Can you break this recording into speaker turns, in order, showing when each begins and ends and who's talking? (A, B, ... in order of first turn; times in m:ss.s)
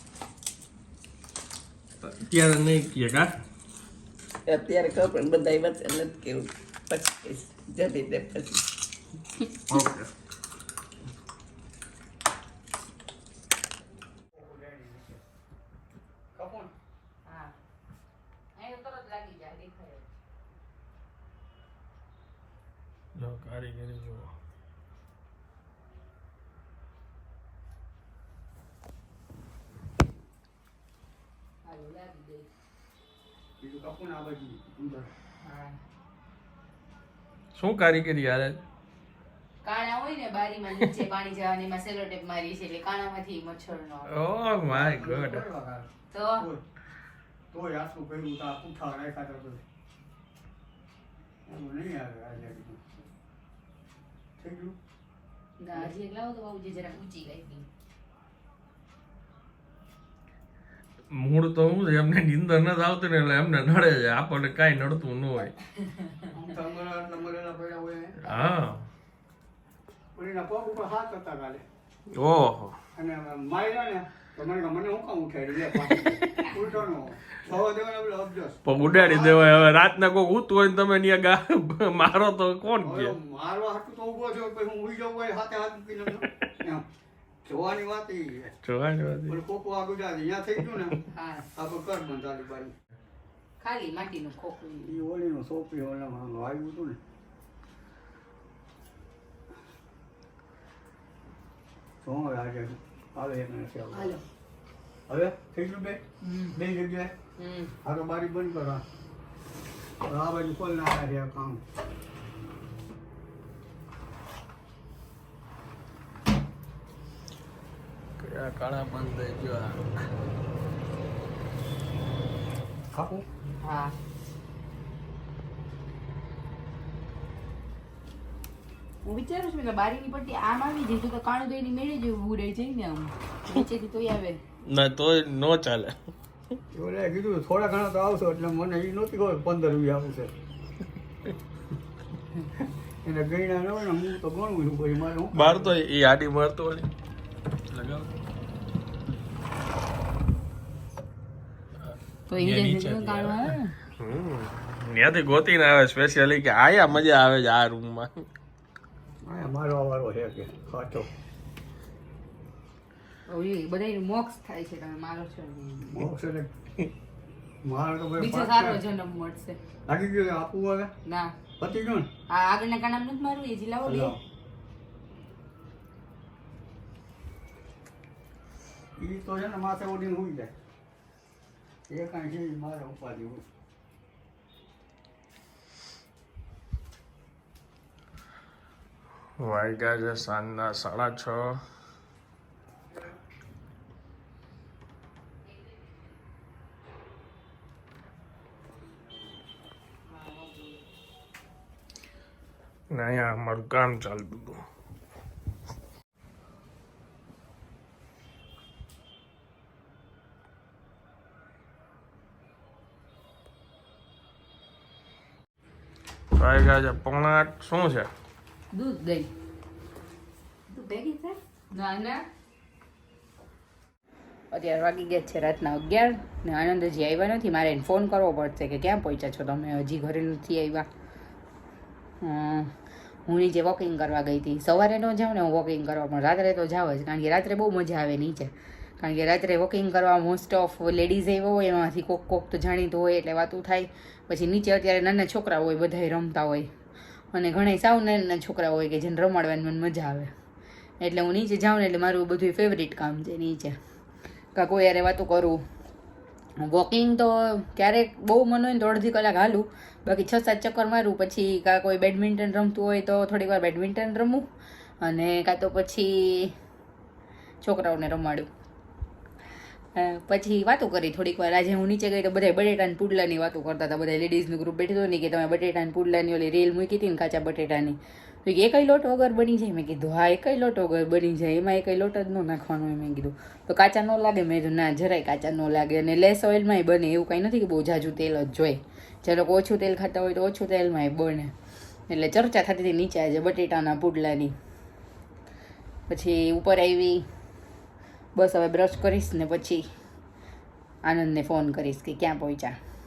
0:02.0-0:03.3 A
0:04.5-0:08.6 B
0:09.7-0:10.1 A
0:14.3-0:15.2 C
0:16.3-0:16.7 C
0:17.3-0:17.5 D
0:18.6-0:20.1 D
0:23.2-0:24.3 A
0:31.6-0:32.5 D
0:33.6-0:35.1 C
0:35.4-0:35.8 D
0:37.5-0:38.6 A
0:39.6-0:44.1 D
0:44.1-0:45.5 A
0:44.7-0:46.6 C
0:46.1-0:46.5 D
0:47.5-0:49.6 C
0:51.5-0:52.8 C
0:54.4-0:54.8 C
0:55.6-0:57.7 D
1:01.1-1:05.5 A
1:05.8-1:06.3 D
1:06.3-1:08.3 C
1:08.2-1:08.9 A
1:10.2-1:11.6 C
1:12.1-1:12.8 A
1:13.0-1:19.7 C
1:15.9-1:16.5 A
1:18.6-1:23.2 A
1:22.8-1:26.8 C
1:27.4-1:28.6 C
1:28.6-1:29.4 A
1:29.3-1:31.0 C
1:31.1-1:31.5 D
1:31.6-1:32.8 C
1:33.6-1:35.0 D
1:34.8-1:37.0 C
1:42.0-1:44.2 C
1:44.0-1:44.2 B
1:45.1-1:47.2 C
1:46.2-1:46.6 D
1:47.4-1:47.8 D
1:47.8-1:48.8 C
1:50.0-1:51.6 C
1:58.2-1:59.8 A
2:02.9-2:03.2 C
2:03.6-2:04.0 D
2:09.0-2:14.4 D
2:14.6-2:16.0 A
2:16.7-2:20.3 C
2:23.0-2:25.7 C
2:25.3-2:26.9 A
2:27.7-2:28.1 A
2:32.3-2:33.8 D
2:32.3-2:38.2 A
2:39.2-2:41.1 C
2:43.3-2:46.1 D
2:45.9-2:46.5 C
2:47.6-2:48.8 C
2:48.2-2:49.6 D
2:49.9-2:50.9 C
2:51.1-2:51.3 D
2:51.6-2:52.1 C
2:52.3-2:54.2 D
2:53.8-2:54.2 C
2:59.0-3:00.5 C
3:01.9-3:03.4 C
3:09.4-3:11.6 A
3:20.1-3:20.8 D
3:22.9-3:24.6 A
3:36.4-3:38.1 A
3:38.7-3:39.3 D
3:40.7-3:42.3 D
3:44.5-3:50.9 D
3:52.2-3:52.7 D
3:53.2-4:06.7 D
4:07.3-4:10.3 D
4:11.0-4:13.7 D
4:14.6-4:15.6 D
4:16.6-4:24.5 D
4:25.0-4:26.5 D
4:27.6-4:28.5 D
4:30.0-4:51.5 D
4:52.1-4:54.5 D
4:56.1-4:57.3 D
4:58.4-4:59.9 D
5:01.0-5:02.8 D